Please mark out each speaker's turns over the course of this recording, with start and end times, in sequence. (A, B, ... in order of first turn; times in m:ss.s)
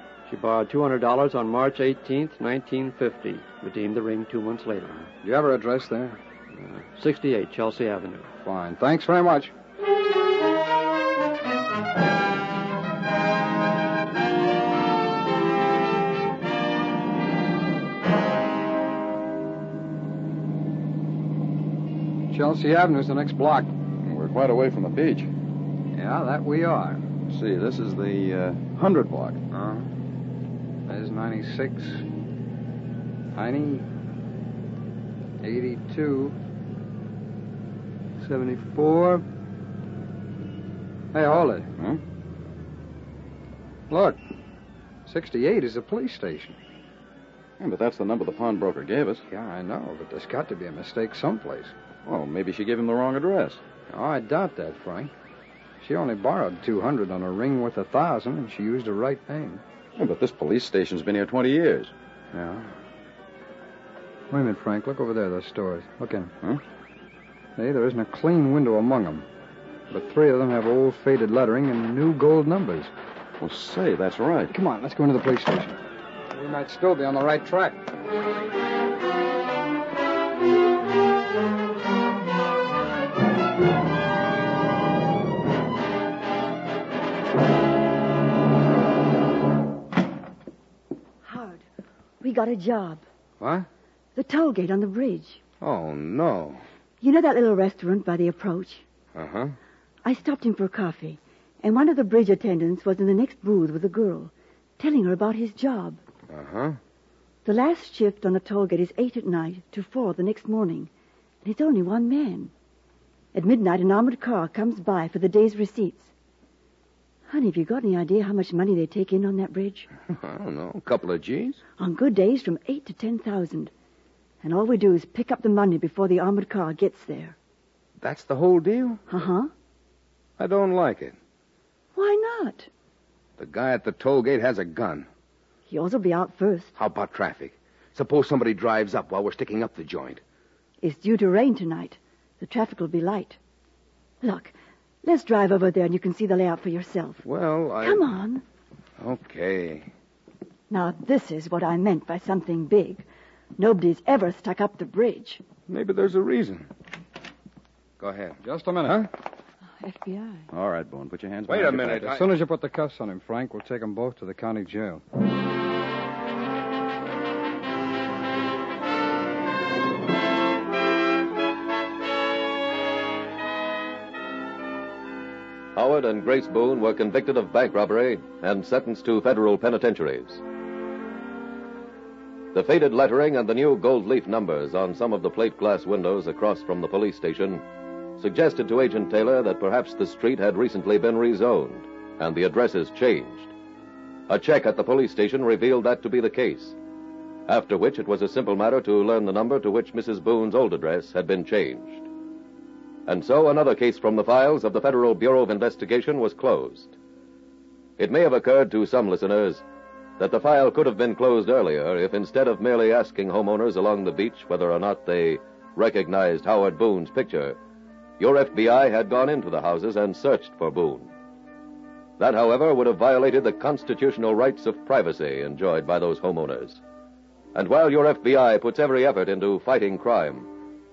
0:00.3-0:05.0 A
0:05.2-0:06.2 B
0:06.6-0:08.3 A
0:08.4-0:09.5 B
0:22.3-0:23.7 B
0:24.0-0:25.3 C
0:25.9-0:27.0 B
0:27.3-0:29.4 C
0:29.5-0:29.9 B
0:30.9-0:32.1 B
0:33.3-0:33.9 B
0:35.4-0:36.4 B
0:38.2-0:39.2 B
0:41.1-0:41.7 B
0:43.9-0:44.2 B
0:45.0-0:46.6 B
0:47.6-0:49.2 C
0:49.3-0:51.8 B
0:52.1-0:53.6 C
0:53.9-0:55.1 B
0:55.8-0:59.6 B
1:00.0-1:01.9 C
1:02.3-1:02.7 B
1:04.3-1:06.3 B
1:07.6-1:09.3 B
1:09.9-1:12.9 B
1:13.4-1:14.5 C
1:14.5-1:15.8 B
1:16.3-1:17.9 B
1:31.2-1:31.6 D
1:32.2-1:33.0 D
1:33.4-1:33.7 B
1:34.2-1:35.4 D
1:35.6-1:36.6 E
1:37.0-1:38.8 D
1:39.1-1:39.6 E
1:40.0-1:46.0 D
1:46.3-1:46.8 E
1:47.4-1:50.9 D
1:51.4-1:52.5 D
1:53.3-1:56.1 D
1:57.3-1:59.9 D
2:00.1-2:01.6 E
2:01.8-2:03.7 D
2:04.4-2:07.4 D
2:08.0-2:09.0 E
2:09.1-2:09.5 D
2:10.4-2:11.2 E
2:12.0-2:12.7 D
2:13.4-2:15.1 E
2:15.7-2:16.7 D
2:16.8-2:20.2 E
2:20.8-2:23.4 D
2:24.2-2:27.2 D
2:27.2-2:28.1 E
2:27.8-2:28.4 D
2:29.0-2:29.9 E
2:30.7-2:33.0 D
2:33.6-2:35.4 D
2:35.7-2:36.7 E
2:38.0-2:39.1 E
2:38.4-2:39.1 B
2:39.8-2:40.4 D
2:40.5-2:42.1 C
2:41.5-2:42.3 E
2:42.0-2:45.0 B
2:55.8-3:00.4 F
3:02.5-3:07.6 F
3:08.2-3:13.5 F
3:14.3-3:16.8 F
3:17.5-3:22.1 F
3:23.1-3:27.0 F
3:28.0-3:29.6 F
3:30.2-3:37.6 F
3:38.2-3:41.1 F
3:42.2-3:46.8 F
3:47.5-3:50.5 F